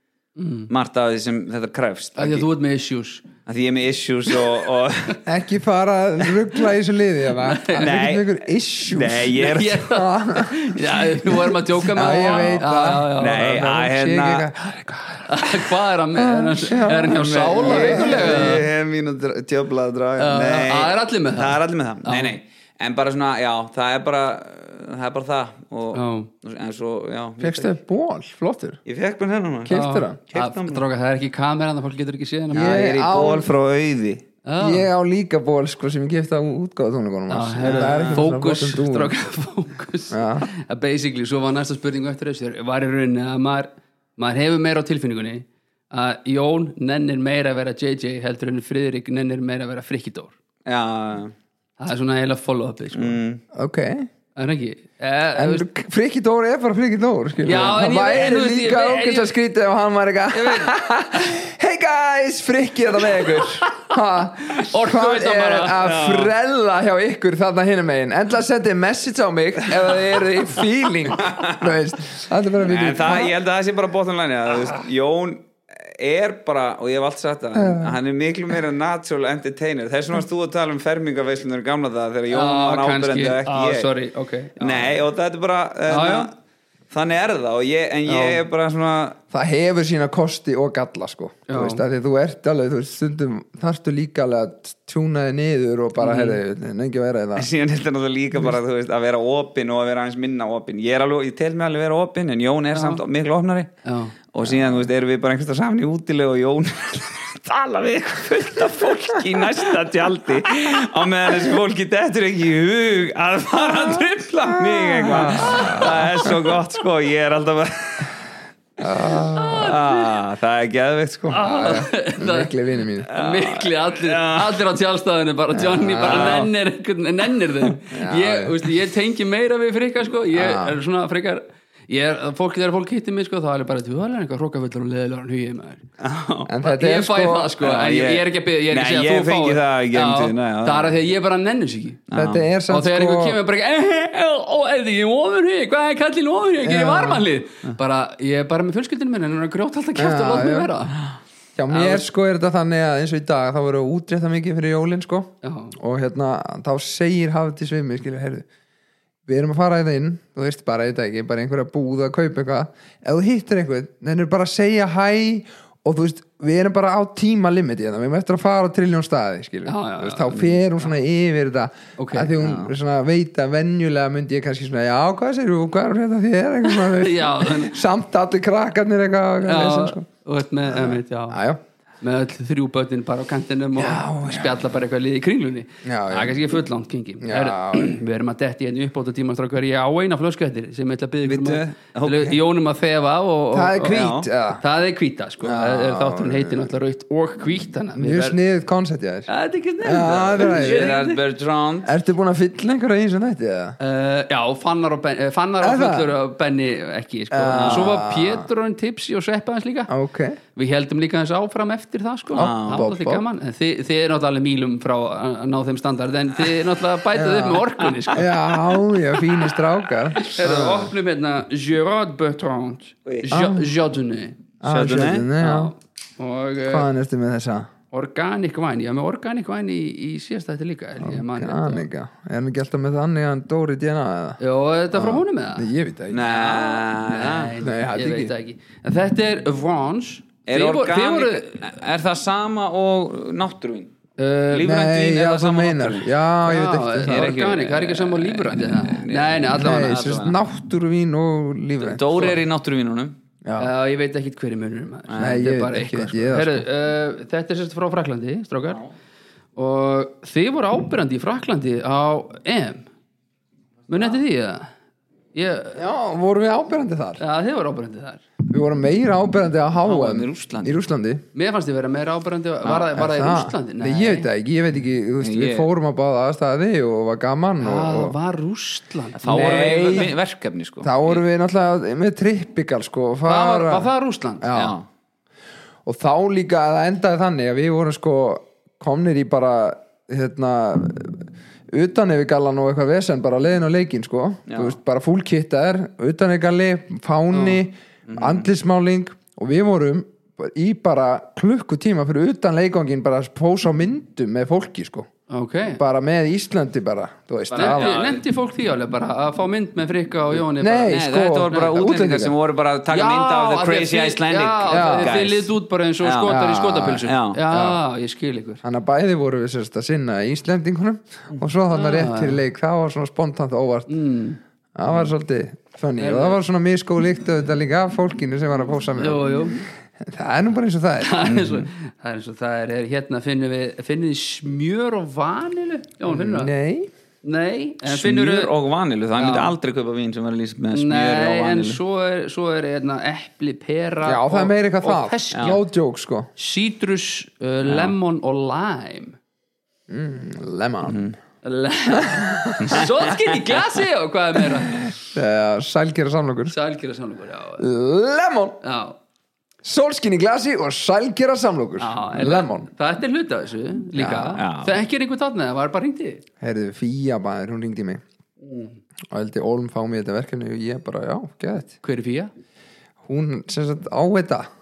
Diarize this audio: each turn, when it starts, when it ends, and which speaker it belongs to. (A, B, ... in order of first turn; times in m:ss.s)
0:00.4-0:00.7 A
0:00.7-0:02.5 B
0:02.2-0:03.3 A
0:03.5-0:05.2 B
0:05.2-0:15.3 C
0:07.4-0:07.9 A
0:07.7-0:09.8 B
0:09.4-0:13.6 A
0:12.0-0:14.5 B
0:15.2-0:18.6 A
0:16.2-0:18.6 C
0:17.1-0:27.7 B
0:20.2-0:22.4 A
0:25.9-0:26.3 A
0:27.4-0:28.8 C
0:28.9-0:30.8 B
0:29.6-0:30.2 C
0:29.7-0:32.8 A
0:32.5-0:33.5 C
0:32.5-0:34.2 B
0:34.4-0:34.9 A
0:34.6-0:39.1 C
0:37.3-0:50.4 A
0:37.6-0:38.3 B
0:40.1-0:40.5 C
0:50.7-0:51.3 B
0:51.8-0:53.2 A
0:52.9-0:53.4 B
0:53.5-0:54.1 C
0:54.4-0:55.6 A
0:55.4-1:13.4 C
0:57.4-0:59.3 A
1:00.3-1:00.7 A
1:04.5-1:05.9 A
1:05.8-1:06.3 B
1:11.2-1:11.8 B
1:12.6-1:23.9 B
1:17.6-1:18.0 C
1:22.3-1:25.0 A
1:24.6-1:26.3 B
1:25.9-1:26.3 A
1:26.9-1:29.2 B
1:28.1-1:28.4 A
1:29.3-1:37.5 C
1:31.5-1:31.8 A
1:36.0-1:36.4 A
1:37.4-1:43.8 B
1:42.7-1:43.0 A
1:43.8-1:44.2 A
1:44.3-1:58.2 B
1:44.4-1:44.9 C
1:54.6-1:56.3 C
1:55.2-1:55.9 A
1:58.8-1:59.8 C
1:59.3-2:00.0 A
1:59.4-2:01.5 B
2:01.3-2:15.8 A
2:01.3-2:03.1 C
2:03.1-2:04.7 B
2:05.5-2:06.4 C
2:06.0-2:06.5 B
2:07.9-2:08.6 C
2:10.3-2:10.8 C
2:16.0-2:16.5 B
2:16.5-2:17.6 C
2:16.6-2:22.0 A
2:17.6-2:21.0 B
2:22.1-2:22.4 B
2:22.1-2:23.4 C
2:22.7-2:31.0 A
2:26.6-2:27.3 C
2:30.0-2:30.7 C
2:31.6-2:38.5 C
2:31.7-2:32.0 A
2:35.4-2:35.8 A
2:39.3-3:00.0 C
2:49.7-2:50.6 A
2:52.0-2:52.3 A
2:52.4-2:52.7 B
2:56.6-2:57.8 A
2:59.4-3:01.4 A
3:00.7-3:01.6 C
3:02.0-3:18.4 A
3:03.8-3:04.6 C
3:05.8-3:06.4 C
3:07.2-3:08.0 C
3:11.2-3:12.4 B
3:13.5-3:14.6 C
3:13.8-3:14.3 B
3:15.4-3:16.7 C
3:18.0-3:19.3 C
3:19.3-3:21.2 A
3:19.8-3:21.0 C
3:20.0-3:21.9 B
3:21.8-3:23.8 C
3:23.8-3:29.9 A
3:25.6-3:26.1 C
3:27.3-3:28.5 C
3:27.5-3:28.0 B
3:29.9-3:30.4 C
3:30.6-3:38.8 A
3:32.4-3:32.9 B
3:32.4-3:33.2 C
3:37.1-3:40.9 C
3:40.2-3:44.4 A
3:43.1-3:43.3 B
3:43.3-3:43.7 C
3:44.6-3:45.7 C
3:44.6-3:45.3 B
3:45.4-3:46.9 A
3:46.7-3:47.7 C
3:47.9-3:51.9 A
3:51.0-3:54.4 C
3:54.4-3:55.7 A
3:54.9-3:56.4 C
3:56.1-3:57.6 B
3:56.3-4:01.7 A
3:57.6-3:58.3 C
4:00.5-4:03.9 B
4:04.2-4:04.7 A
4:04.5-4:06.1 B
4:04.6-4:07.3 C
4:06.5-4:10.1 A
4:07.1-4:10.4 B
4:09.5-4:12.0 C
4:11.8-4:13.2 B
4:13.4-4:13.7 C
4:13.6-4:18.8 A
4:15.1-4:15.4 B
4:15.2-4:16.7 C
4:19.6-4:22.9 A
4:23.9-4:24.7 A
4:25.3-4:25.8 A
4:25.8-4:27.2 C
4:27.2-4:28.2 A
4:28.4-4:31.2 C
4:29.8-4:30.8 B
4:31.4-4:34.3 A
4:32.7-4:38.2 C
4:35.2-4:35.7 B
4:37.6-4:40.1 A
4:39.2-4:41.2 B
4:39.3-4:40.1 C
4:40.8-4:43.9 C
4:43.3-4:44.5 A
4:44.4-4:44.8 C
4:44.5-4:44.9 B
4:45.9-5:05.1 C
4:54.5-4:54.8 B
4:57.3-4:57.6 A
4:58.1-4:58.5 B
5:05.3-5:05.8 A
5:05.8-5:08.1 C
5:07.5-5:08.2 B
5:07.5-5:11.8 A
5:10.4-5:12.3 C
5:10.8-5:16.4 B
5:12.9-5:18.6 A
5:14.7-5:15.2 C
5:16.3-5:17.8 C
5:16.9-5:17.4 B
5:18.6-5:23.9 C
5:21.7-5:22.4 A
5:23.9-5:24.4 A
5:24.8-5:31.2 C
5:26.0-5:26.4 A
5:29.0-5:29.6 A
5:31.0-5:36.5 A
5:31.3-5:31.7 B
5:36.1-5:36.9 C
5:37.2-5:38.5 A
5:37.8-5:41.8 B
5:39.2-5:39.5 A
5:40.7-5:45.6 A
5:44.0-5:46.3 C
5:45.3-5:45.6 B
5:46.4-5:49.2 A
5:47.6-5:47.9 B
5:49.9-5:51.1 C
5:50.9-5:51.2 B
5:51.4-5:54.9 A
5:51.9-5:52.8 C
5:52.6-5:52.9 B
5:54.8-5:56.6 C
5:56.5-5:57.6 A
5:57.6-5:58.6 C
5:58.6-5:59.0 A
5:59.6-6:02.7 C
6:01.8-6:06.2 A
6:03.9-6:04.4 C
6:04.4-6:04.8 B
6:06.4-6:08.0 C
6:08.4-6:08.8 A
6:09.1-6:11.8 C
6:11.8-6:12.3 A
6:13.0-6:14.5 C